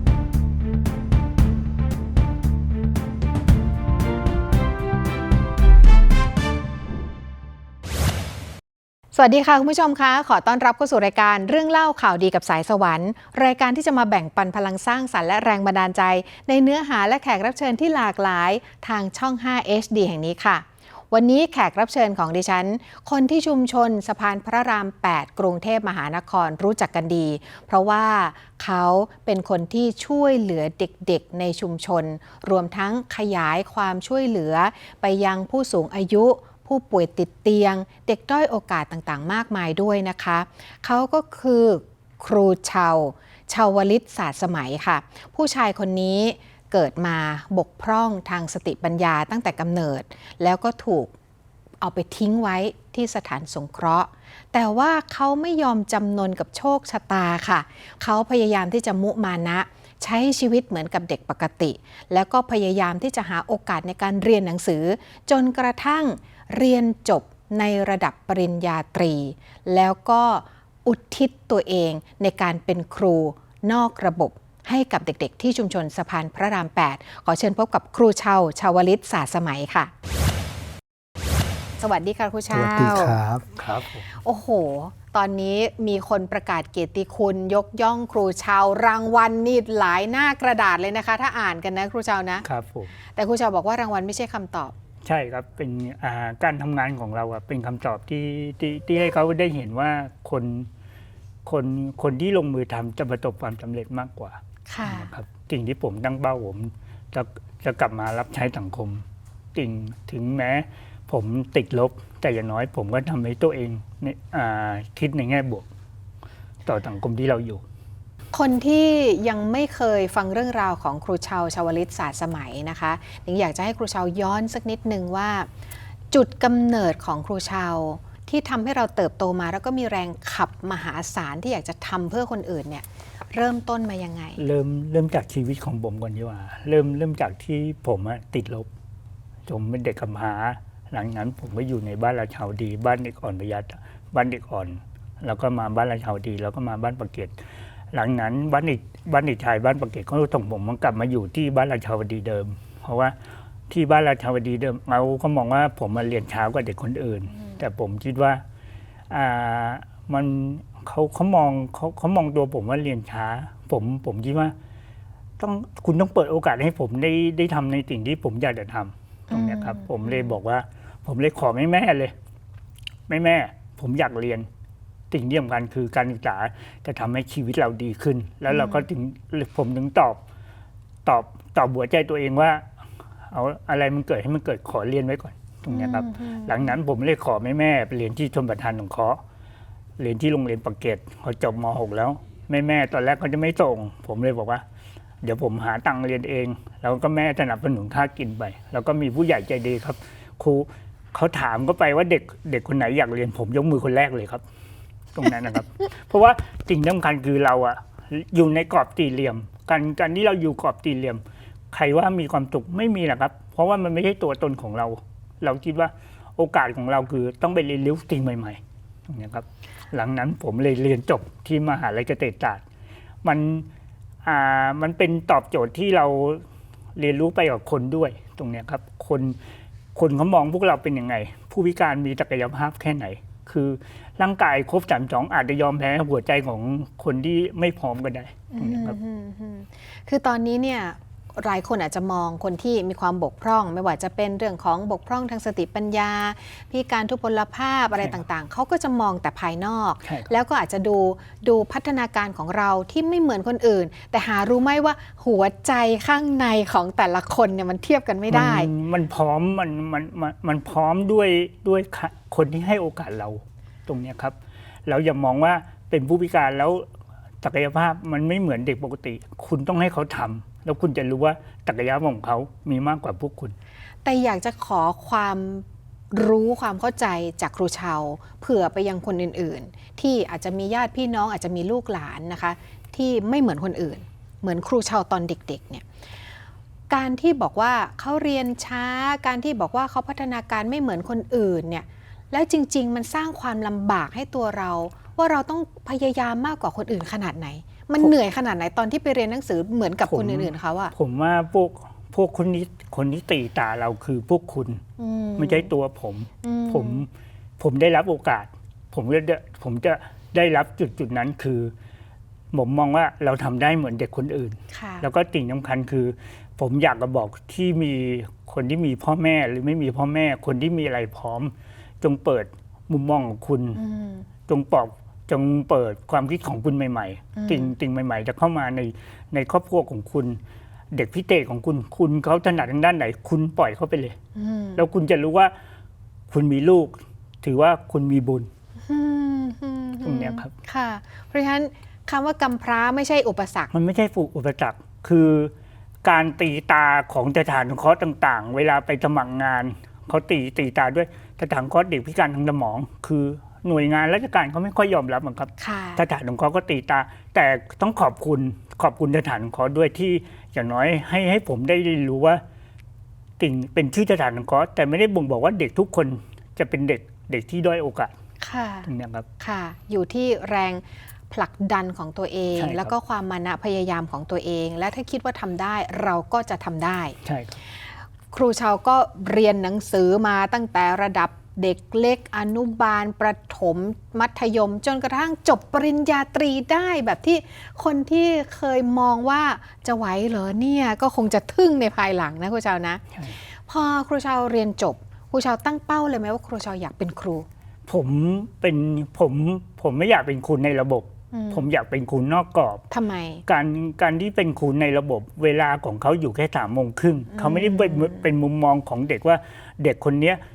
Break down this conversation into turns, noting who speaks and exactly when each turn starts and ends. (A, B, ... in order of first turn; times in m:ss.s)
0:09.1-0:51.1 A
0:51.8-1:19.9 A
1:21.8-1:23.4 A
1:22.9-1:24.1 B
1:24.1-1:32.4 A
1:32.4-1:32.9 B
1:33.2-1:34.7 A
1:35.0-1:40.7 B
1:41.4-1:55.7 B
1:44.7-1:45.1 A
1:56.7-1:57.6 B
1:58.3-2:05.5 A
2:06.1-2:14.4 A
2:14.4-2:18.7 B
2:19.5-2:27.4 B
2:27.9-2:33.1 B
2:33.7-2:38.4 B
2:39.1-2:44.5 B
2:45.4-2:52.1 B
2:49.3-2:50.3 A
2:53.1-2:54.5 B
2:55.1-3:00.2 B
2:58.5-2:58.8 A
3:01.0-3:02.7 B
3:03.3-3:09.2 B
3:05.7-3:06.8 A
3:10.0-3:14.6 B
3:15.2-3:24.4 B
3:25.1-3:42.6 B
3:43.2-3:43.7 B
3:44.2-3:46.4 B
3:47.0-3:49.4 B
3:49.9-3:59.0 B
3:58.5-4:18.7 A
4:10.0-4:10.3 B
4:18.3-4:26.9 B
4:27.4-4:33.6 B
4:34.0-4:45.8 A
4:46.9-5:00.9 A
5:00.1-5:04.8 B
5:05.0-5:05.7 A
5:05.4-5:11.7 B
5:06.4-5:07.1 A
5:12.5-5:23.8 B
5:14.7-5:15.1 A
5:23.8-5:24.3 A
5:24.5-5:30.4 B
5:27.4-5:27.7 A
5:30.9-5:34.2 B
5:34.4-5:34.8 A
5:34.8-5:35.5 B
5:36.3-5:38.5 B
5:38.9-5:43.7 A
5:40.0-5:40.5 B
5:43.7-5:45.5 B
5:46.0-6:02.4 B
5:55.6-5:56.0 A
6:03.4-6:08.1 B
6:08.4-6:17.2 A
6:08.9-6:09.3 B
6:12.6-6:12.9 B
6:17.2-6:17.6 B
6:17.8-6:33.0 A
6:33.7-6:37.5 A
6:37.9-6:42.8 B
6:41.3-6:41.7 A
6:42.9-6:43.4 A
6:43.5-6:50.4 B
6:47.3-6:48.3 A